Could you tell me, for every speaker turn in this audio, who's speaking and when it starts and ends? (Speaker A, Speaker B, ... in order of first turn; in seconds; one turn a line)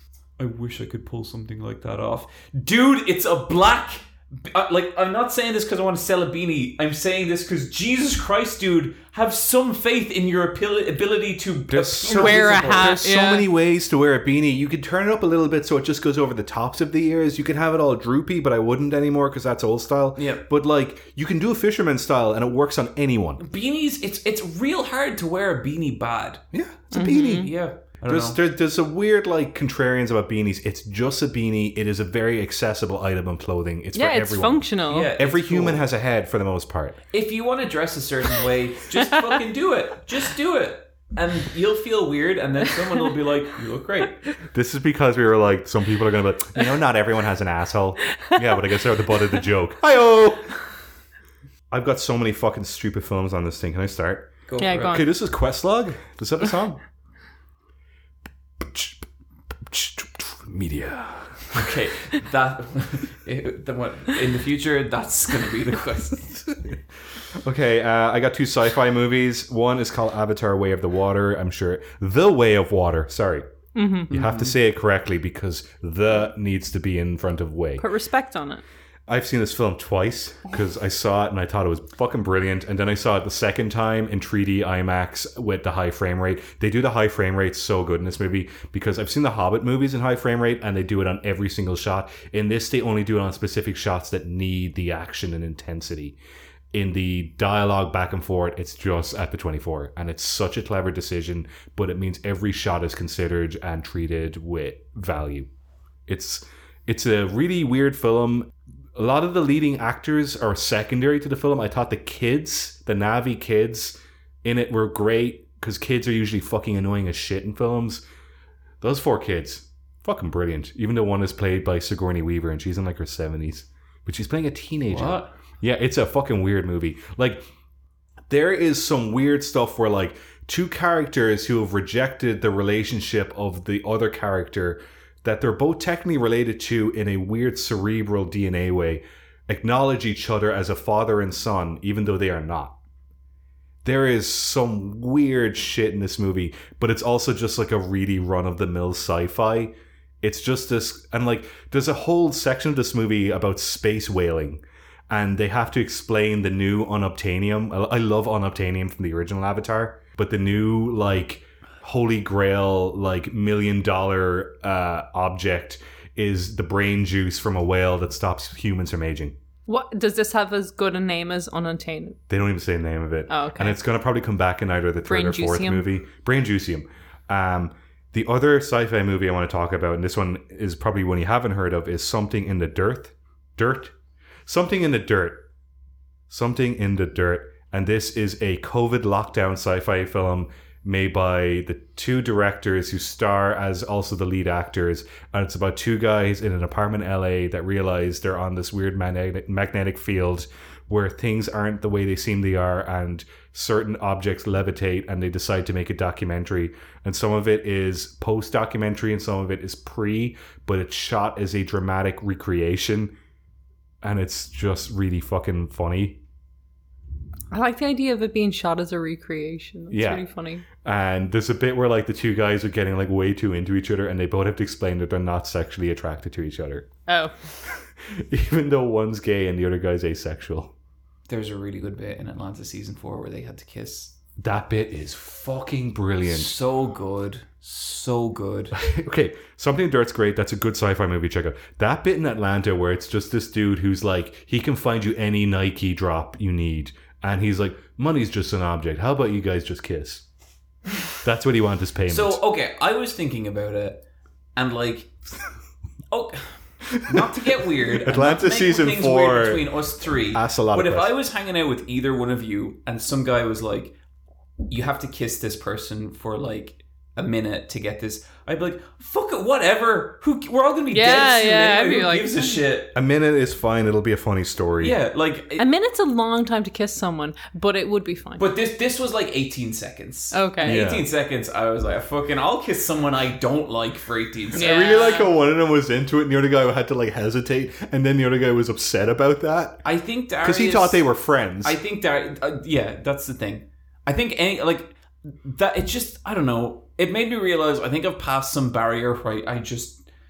Speaker A: 0.4-13.0
Speaker B: 11.7-23.4
Speaker C: 12.0-13.5
Speaker A: 20.1-20.4
Speaker A: 23.4-26.4
Speaker B: 26.5-27.5
Speaker C: 26.9-27.5
Speaker A: 27.3-28.4
Speaker B: 28.1-34.6
Speaker C: 33.9-35.1
Speaker A: 34.9-35.8
Speaker B: 35.2-37.0
Speaker A: 37.1-44.2
Speaker B: 44.5-50.5
Speaker B: 51.7-56.8
Speaker A: 54.5-55.0
Speaker C: 54.6-55.1
Speaker B: 58.6-59.0
Speaker B: 59.6-61.7
Speaker A: 61.5-66.5
Speaker B: 67.4-73.5
Speaker C: 73.7-74.1
Speaker B: 74.1-77.8
Speaker A: 74.1-74.5
Speaker C: 77.8-78.6
Speaker B: 79.1-96.2
Speaker B: 96.7-105.5
Speaker B: 106.1-118.0
Speaker B: 118.8-127.4
Speaker A: 124.9-125.3
Speaker B: 128.3-142.8
Speaker B: 143.8-169.3
Speaker C: 169.7-172.2
Speaker B: 172.3-183.9
Speaker C: 173.3-173.8
Speaker C: 175.1-175.8
Speaker B: 184.4-185.5
Speaker B: 186.3-213.1
Speaker B: 214.0-216.2
Speaker C: 217.5-220.6
Speaker B: 219.9-220.2
Speaker B: 220.8-226.9
Speaker C: 227.1-227.3
Speaker B: 228.1-230.7
Speaker A: 231.3-234.1
Speaker B: 234.4-236.5
Speaker A: 236.2-238.7
Speaker B: 238.7-250.2
Speaker B: 251.2-252.4
Speaker A: 252.1-254.0
Speaker A: 254.6-255.1
Speaker A: 256.1-263.9
Speaker B: 256.9-259.7
Speaker B: 260.3-261.1
Speaker A: 264.7-272.9
Speaker C: 270.9-272.6
Speaker B: 272.9-274.9
Speaker A: 274.8-275.6
Speaker C: 275.6-278.4
Speaker A: 278.4-284.9
Speaker C: 280.3-280.8
Speaker B: 280.6-281.1
Speaker B: 284.5-289.9
Speaker C: 284.6-285.3
Speaker A: 289.8-291.0
Speaker B: 290.4-291.8
Speaker A: 291.6-300.0